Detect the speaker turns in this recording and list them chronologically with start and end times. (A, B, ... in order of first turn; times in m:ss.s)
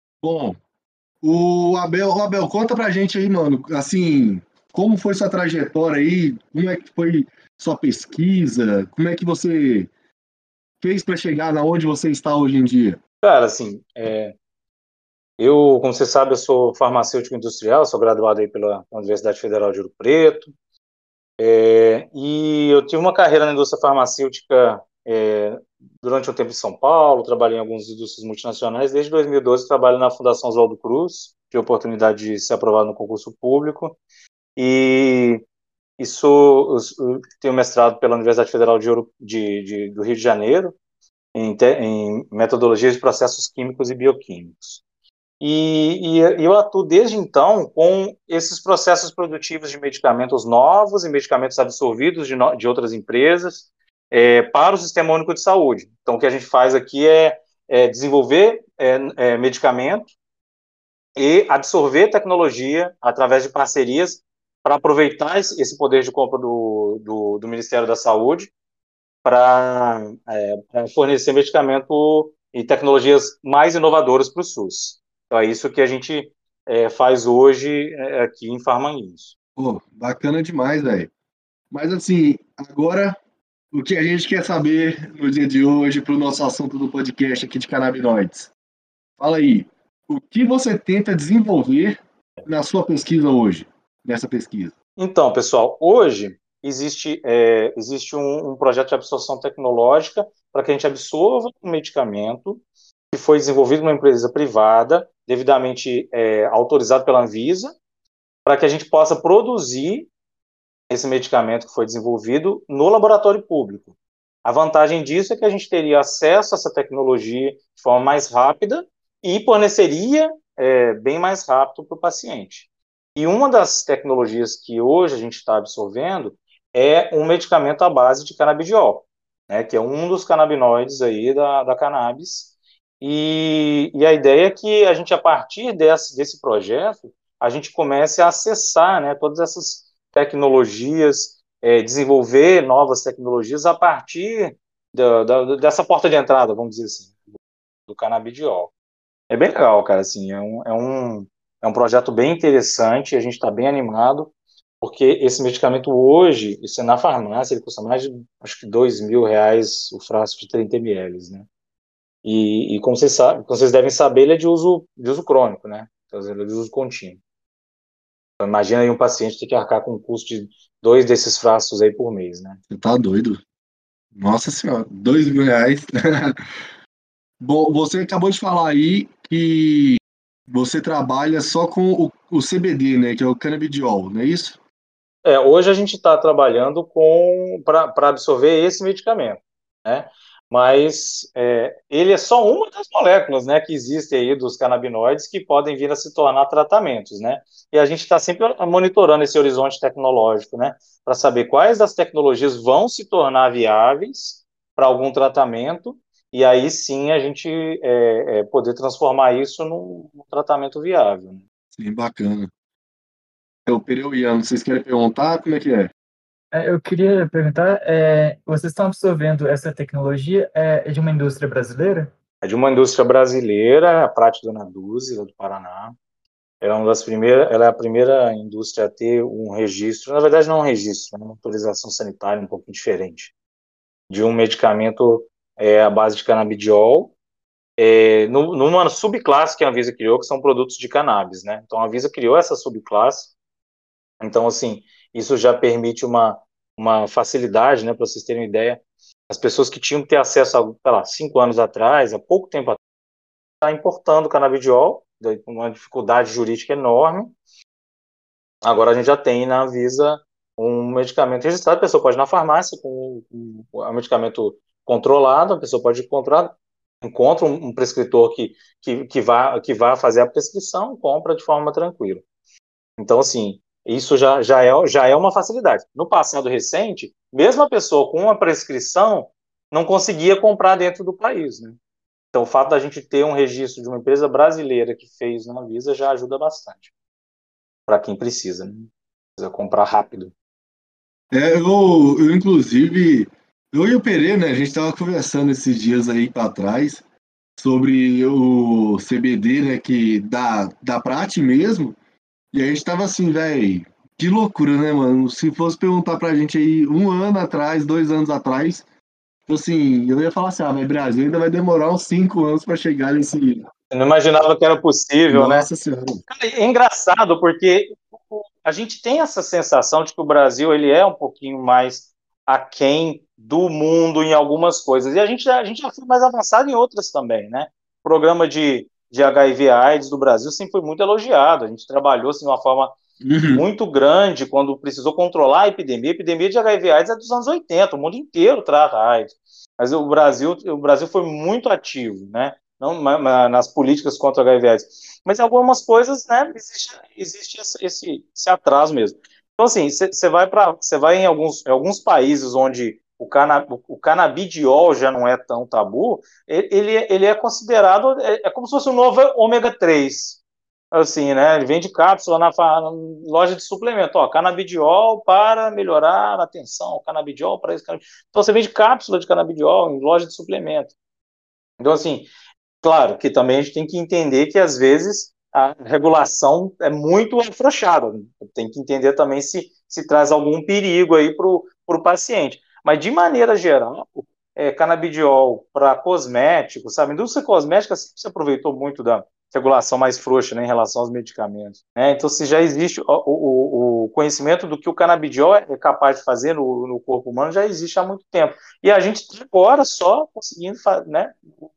0:00.2-0:00.6 A
0:01.2-0:09.9 A
0:10.8-0:13.0 A
0:13.2-0:14.3 B
0:15.4-0:20.5 B
0:21.4-0:34.0 B
0:34.6-0:35.4 B
0:36.0-0:40.7 B
0:41.3-0:44.8 B
0:45.4-1:00.1 B
1:01.2-1:08.5 B
1:09.2-1:19.3 B
1:19.6-1:21.1 A
1:21.7-1:23.2 A
1:23.7-1:28.5 A
1:29.2-1:34.7 A
1:35.0-1:47.7 B
1:48.4-1:50.1 B
1:50.9-2:27.2 B
2:27.9-2:28.7 B
2:29.3-2:41.5 B
2:42.2-2:47.2 B
2:48.4-2:52.6 B
2:52.7-2:53.4 A
2:54.1-2:56.4 A
2:57.4-3:04.6 A
3:05.2-3:31.4 B
3:31.7-3:32.5 A
3:33.6-3:35.9 A
3:36.5-3:42.1 C
3:42.4-3:46.0 B
3:46.6-3:53.3 B
3:54.1-3:57.1 B
3:57.8-4:03.3 B
4:04.2-4:12.8 B
4:13.6-4:17.3 B
4:18.6-4:32.2 B
4:33.0-4:41.8 B
4:42.3-4:46.9 B
4:47.9-4:50.3 B
4:51.3-4:57.0 A
4:57.6-5:02.0 A
5:02.5-5:08.8 A
5:09.5-5:13.6 A
5:13.9-5:15.7 B
5:15.3-5:16.2 A
5:16.3-5:32.9 B
5:33.2-5:33.6 A
5:33.5-6:00.4 B
6:00.9-6:10.9 B
6:11.8-6:12.3 B
6:12.8-6:41.5 B